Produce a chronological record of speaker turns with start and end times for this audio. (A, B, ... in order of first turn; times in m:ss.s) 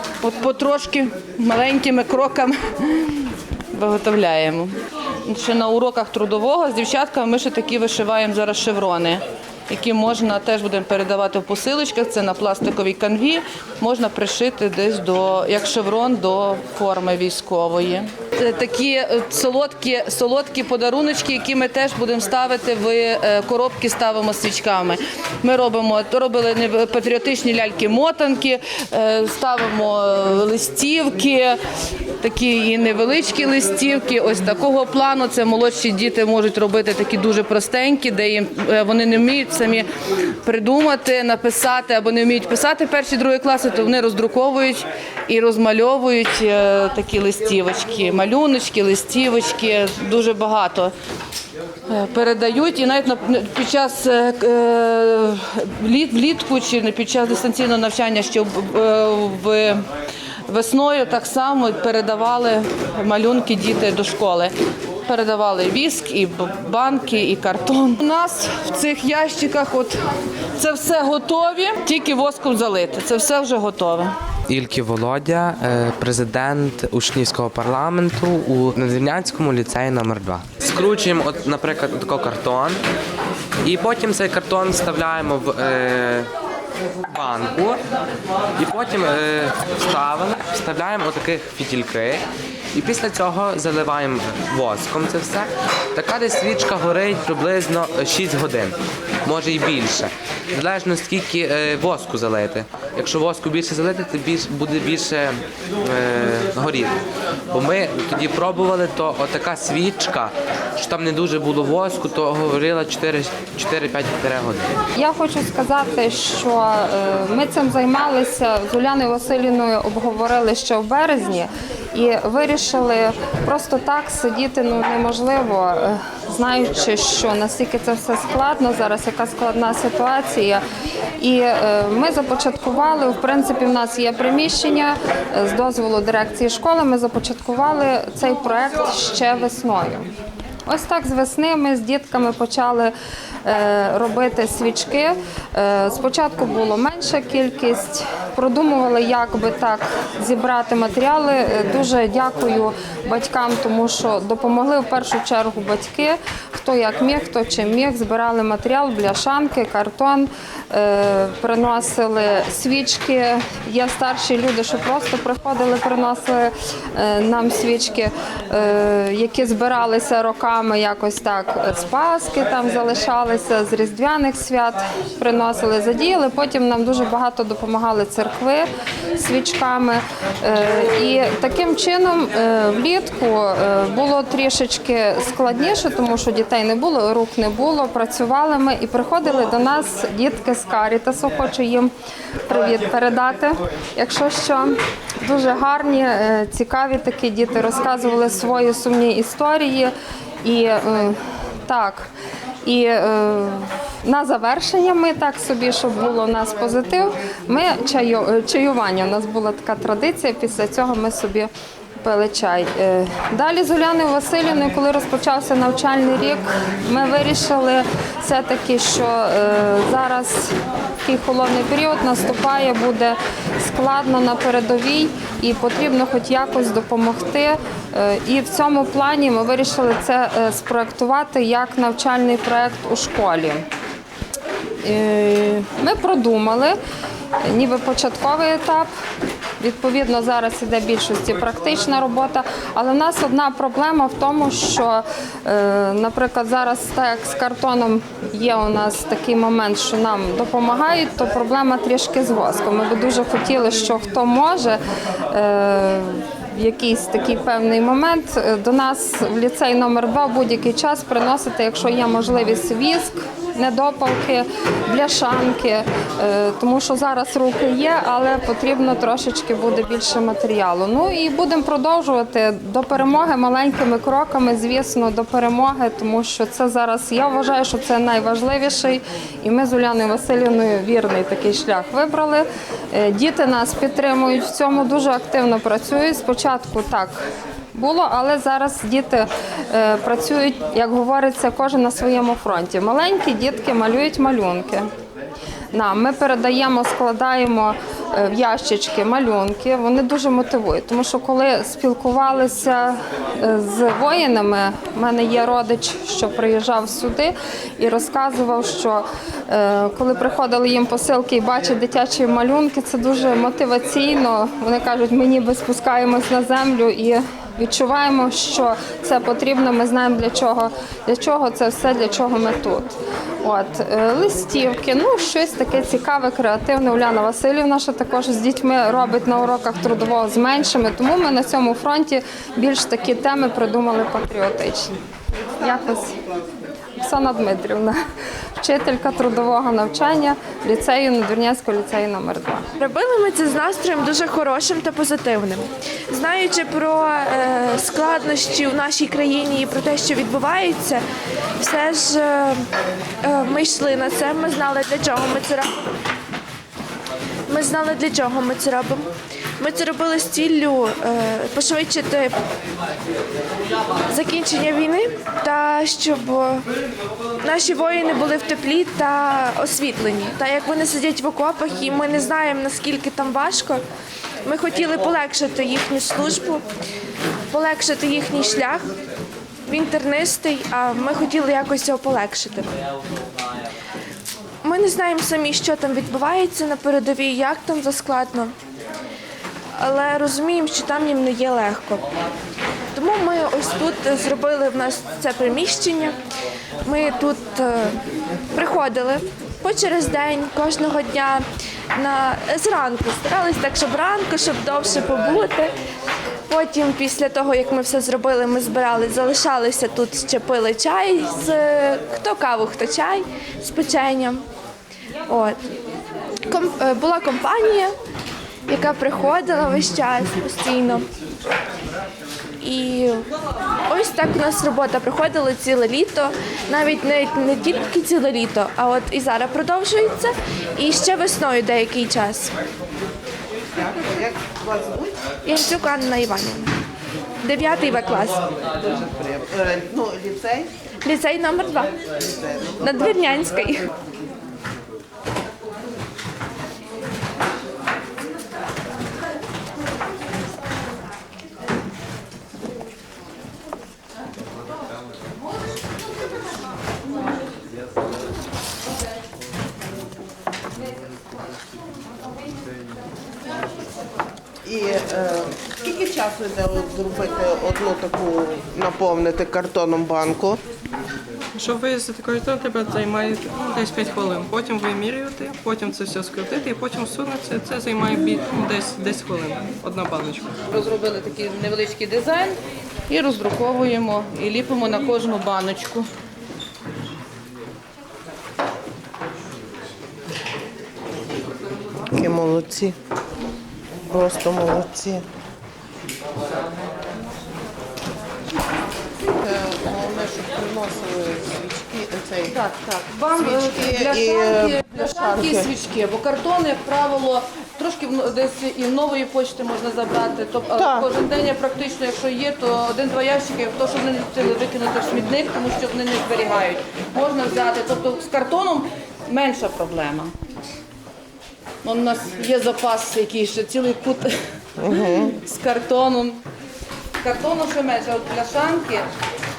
0:00.2-0:31.6 A
0:32.2-0:39.9 A
0:40.4-0:50.9 A
0:51.9-0:59.8 A
1:00.5-1:04.5 A
1:05.1-1:10.0 A
1:10.6-1:14.1 A
1:14.5-1:22.8 B
1:23.6-1:26.3 B
1:27.1-1:27.8 B
1:28.6-1:47.0 B
1:47.5-1:54.7 B
1:55.0-2:10.6 C
2:11.2-2:20.1 C
2:20.7-2:22.9 C
2:23.4-3:11.9 C
3:12.4-3:19.9 C
3:20.4-3:22.1 C
3:22.6-3:31.5 C
3:32.0-3:53.6 C
3:54.8-3:56.8 C
3:57.4-3:58.9 C
3:59.6-4:54.9 C
4:55.7-5:34.9 C
5:35.6-5:36.1 C
5:37.0-5:38.0 C
5:38.6-5:42.7 C
5:42.8-5:51.0 D
5:51.6-5:52.7 D
5:53.2-5:55.9 D
5:57.5-6:02.4 D
6:04.0-6:06.6 D
6:07.4-6:13.8 D
6:14.4-6:16.6 D
6:17.5-6:18.9 D
6:19.6-6:22.7 D
6:24.6-6:28.6 D
6:29.7-6:32.1 D
6:32.9-6:36.2 D
6:36.8-6:38.0 D
6:38.5-6:45.7 D
6:46.5-6:54.4 D
6:55.2-6:55.6 D
6:56.4-6:57.9 D
6:58.7-7:01.1 D
7:02.6-7:03.3 D
7:03.9-7:12.5 D
7:13.7-7:15.1 E
7:15.4-7:16.8 D
7:17.4-7:18.5 D
7:18.7-7:20.7 E
7:21.0-7:22.0 D
7:22.2-7:22.8 E
7:22.8-7:23.9 D
7:44.6-7:50.6 E
7:51.5-8:00.5 F
8:00.7-8:02.6 A
8:03.1-8:06.0 A
8:12.1-8:12.9 E
8:14.1-8:15.2 E
8:19.2-8:22.6 E
8:22.5-8:40.3 A
8:23.4-8:25.7 E
8:30.8-8:31.1 E
8:41.8-8:44.4 A
8:44.8-8:45.3 E
8:44.9-8:46.4 A
8:47.2-8:49.1 A